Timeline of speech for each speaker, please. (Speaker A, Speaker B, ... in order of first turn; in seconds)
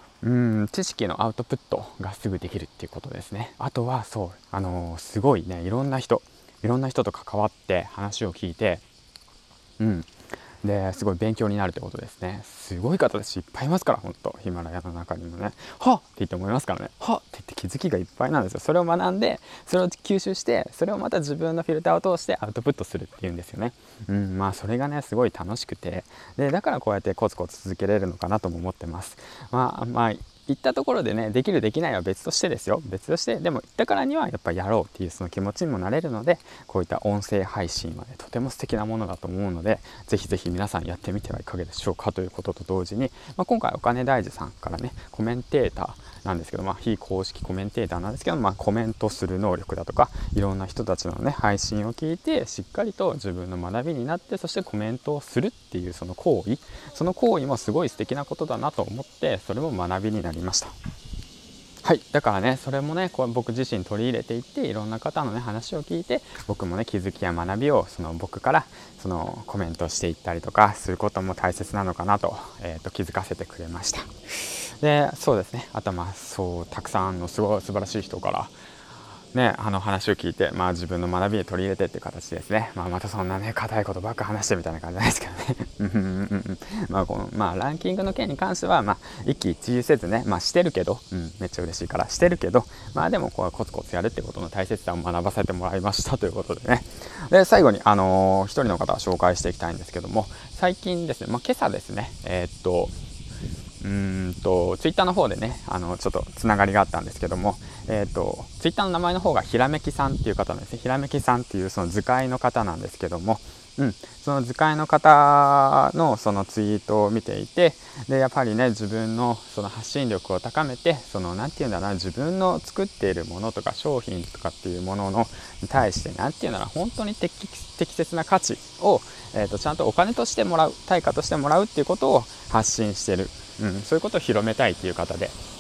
Speaker A: 0.2-8.8, 9.8-10.1, 10.6-60.7, 61.8-74.1, 74.8-78.5, 79.3-103.0, 103.8-135.4